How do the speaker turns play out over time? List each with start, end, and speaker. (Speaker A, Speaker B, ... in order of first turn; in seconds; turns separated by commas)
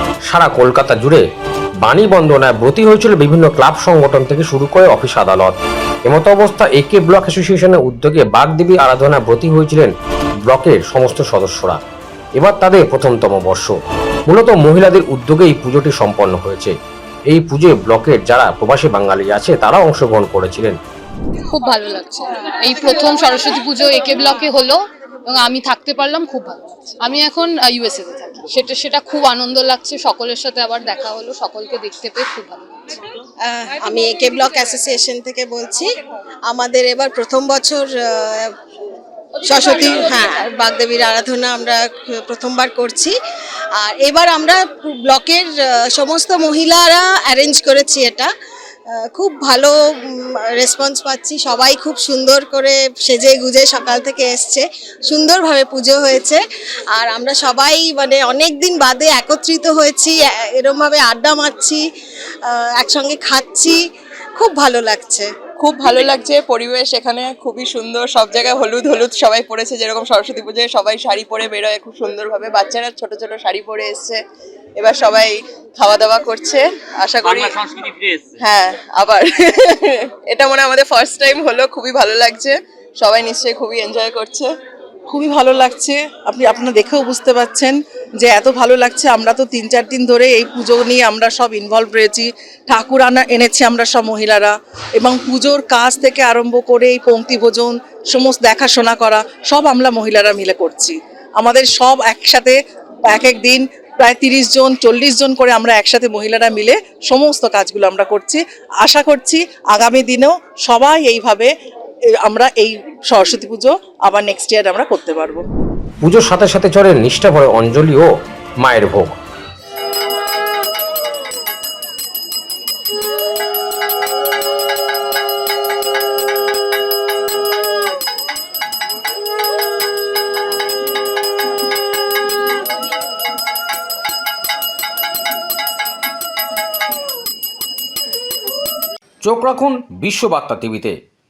Speaker A: 0.3-1.2, Speaker A: 1.8-9.9, Speaker A: 10.5-11.8, Speaker A: 12.4-13.7, Speaker A: 14.3-16.7, Speaker A: 17.3-20.8, Speaker B: 21.5-32.7, Speaker C: 33.4-36.0, Speaker C: 36.5-38.5, Speaker C: 39.4-43.1, Speaker C: 43.8-48.3, Speaker C: 48.9-56.4, Speaker C: 56.9-61.8, Speaker C: 62.5-63.8, Speaker C: 64.4-65.3, Speaker D: 65.6-74.2, Speaker D: 74.8-77.6, Speaker D: 78.4-84.5, Speaker E: 85.1-111.5, Speaker E: 112.2-115.4, Speaker A: 116.0-119.2, Speaker A: 139.2-141.0